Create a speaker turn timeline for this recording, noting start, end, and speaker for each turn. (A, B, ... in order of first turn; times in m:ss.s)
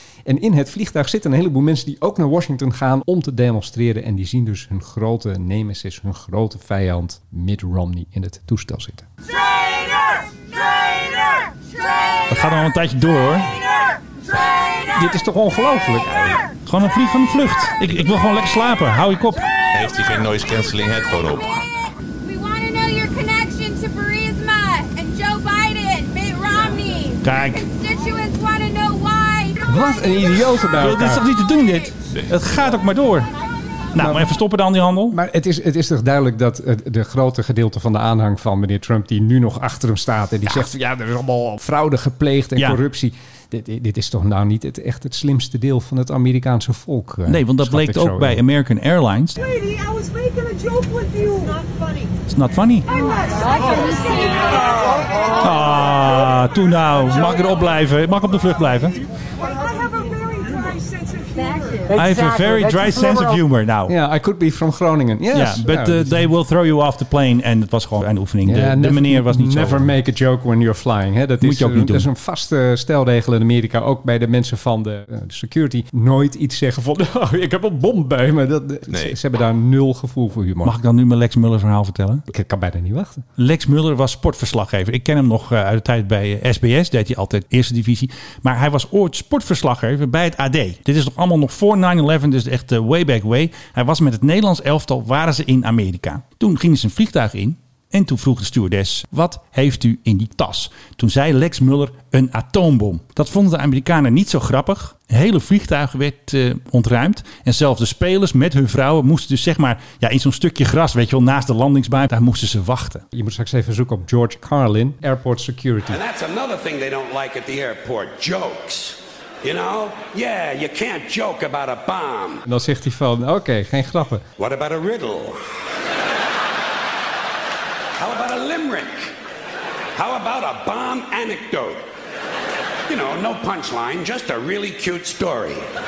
0:00.2-0:09.1 A
0:12.3-0:13.5 B
0:14.9-0:16.4 A
0:16.6-0:19.5 B
0:19.7-0:21.5 C
0:21.5-0:30.5 D
0:27.2-0:27.7 B
0:29.7-0:31.3 A
0:30.8-0:33.3 B
0:31.6-0:31.9 D
0:33.9-0:35.2 B
0:34.0-0:34.3 A
0:35.1-0:48.4 A
0:47.3-0:49.4 B
0:52.3-0:52.9 B
0:55.4-0:59.0 B
1:01.9-1:03.9 B
1:03.9-1:06.3 A
1:05.3-1:09.9 B
1:08.4-1:20.7 A
1:11.4-1:12.1 B
1:18.9-1:19.2 C
1:20.6-1:22.2 B
1:22.3-1:23.2 A
1:23.4-1:53.0 B
1:53.1-1:56.0 A
1:55.9-2:02.4 E
2:02.5-2:04.2 A
2:04.4-2:05.4 E
2:08.0-2:09.1 E
2:09.9-2:11.8 E
2:12.9-2:15.6 E